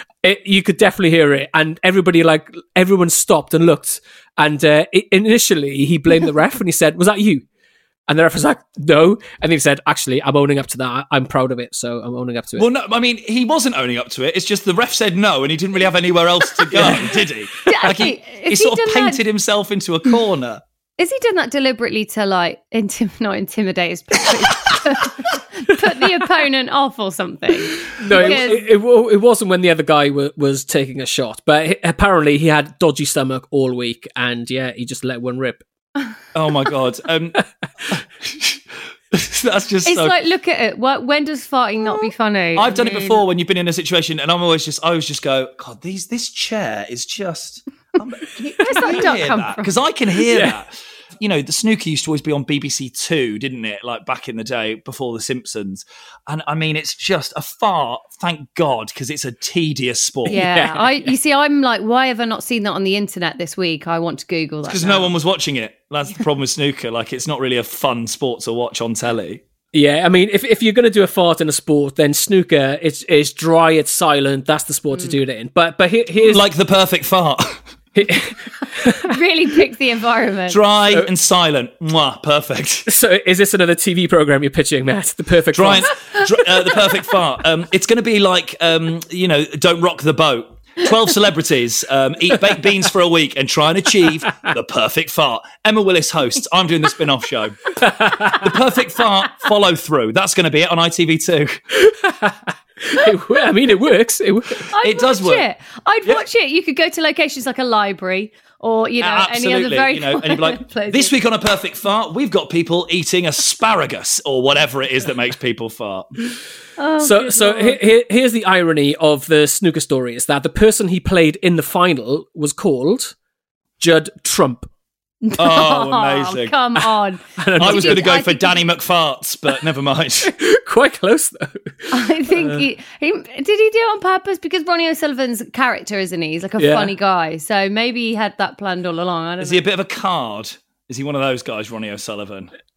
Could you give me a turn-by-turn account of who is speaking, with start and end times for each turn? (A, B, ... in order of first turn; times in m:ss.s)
0:00.2-0:07.4 A
0:08.1-0:12.7 A
0:12.6-0:20.6 B
0:16.7-0:17.2 A
0:17.6-0:19.2 C
0:21.0-0:28.7 C
0:28.0-0:35.6 A
0:28.1-0:28.5 B
0:36.3-0:37.4 B
0:37.9-0:38.6 B
0:39.1-0:40.2 B
0:39.8-0:43.2 C
0:42.6-1:00.4 B
0:48.4-0:49.7 C
0:48.6-0:49.0 A
0:50.3-0:50.6 A
1:00.3-1:01.2 A
1:00.3-1:05.1 C
1:04.7-1:09.4 B
1:09.7-1:16.4 A
1:16.2-1:17.6 B
1:18.0-1:19.2 A
1:19.0-1:20.6 C
1:20.5-1:22.9 B
1:22.9-1:25.9 A
1:25.5-1:37.8 B
1:37.8-1:38.5 A
1:38.3-1:41.6 B
1:41.7-1:44.7 A
1:44.7-1:51.1 C
1:44.8-1:45.5 B
1:49.0-1:56.2 B
1:56.8-1:57.8 C
1:57.0-2:03.2 A
2:03.8-2:04.7 A
2:05.2-2:08.6 C
2:05.4-2:06.6 B
2:07.4-2:08.1 A
2:07.6-2:10.3 B
2:10.2-2:12.6 A
2:11.9-2:19.6 C
2:16.6-2:17.0 A
2:19.4-2:22.5 B